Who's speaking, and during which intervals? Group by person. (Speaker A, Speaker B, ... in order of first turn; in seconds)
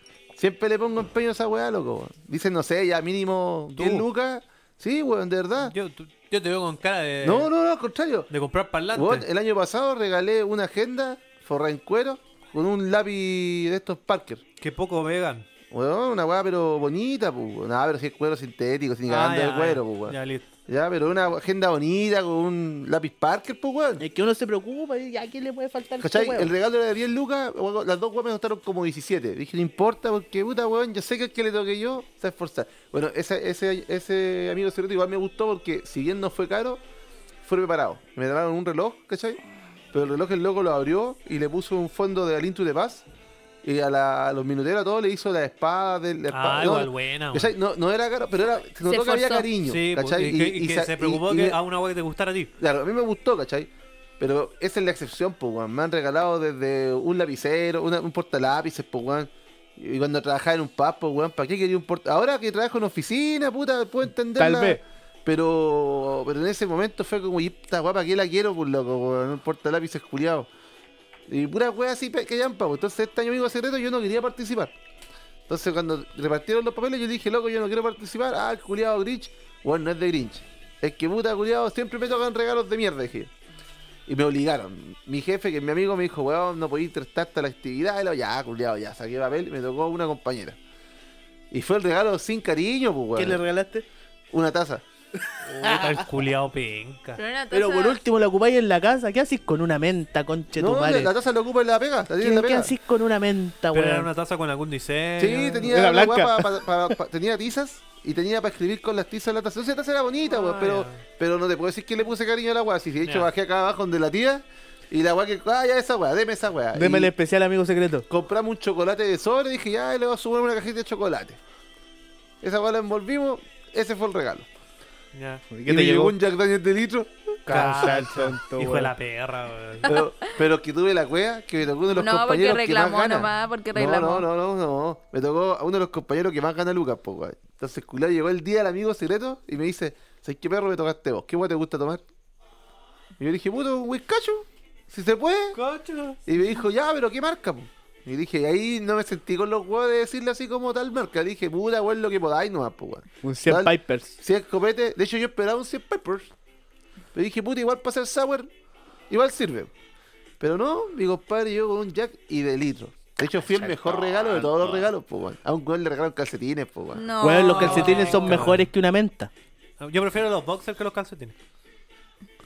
Speaker A: 0.3-5.8, 7.2-8.3, 8.9-14.4, 15.7-20.2, 20.7-24.0, 26.0-36.8, 37.4-39.4, 39.9-43.0, 43.6-51.6, 52.6-70.5, 71.3-74.7, 75.5-83.3, 84.1-90.6, 91.5-93.4, 94.3-94.8, 100.6-102.7, 105.2-117.1, 118.1-121.4, 122.4-124.5, 125.7-127.4, 129.8-142.0, 143.2-145.6, 146.3-156.3, 157.1-158.5, 159.1-159.7, 160.4-167.9
Speaker B: 3.8-4.1, 5.6-7.5, 8.3-9.3, 14.6-15.5, 19.1-20.5, 46.3-47.5, 49.6-52.5, 95.5-97.2, 103.7-105.7, 110.3-111.0, 113.0-113.3, 125.1-125.4, 127.5-130.0, 145.5-146.2, 167.3-168.7, 169.8-171.3
Speaker C: 24.0-26.5, 64.4-64.8, 93.2-93.9, 95.6-96.0, 97.5-101.1, 102.2-104.1, 105.7-106.7, 116.7-118.1, 125.5-126.2, 127.5-128.9, 153.2-154.2, 163.4-164.8, 167.2-169.3
Speaker D: 48.9-49.5, 97.2-98.0, 129.8-130.3, 131.9-134.3, 166.9-168.3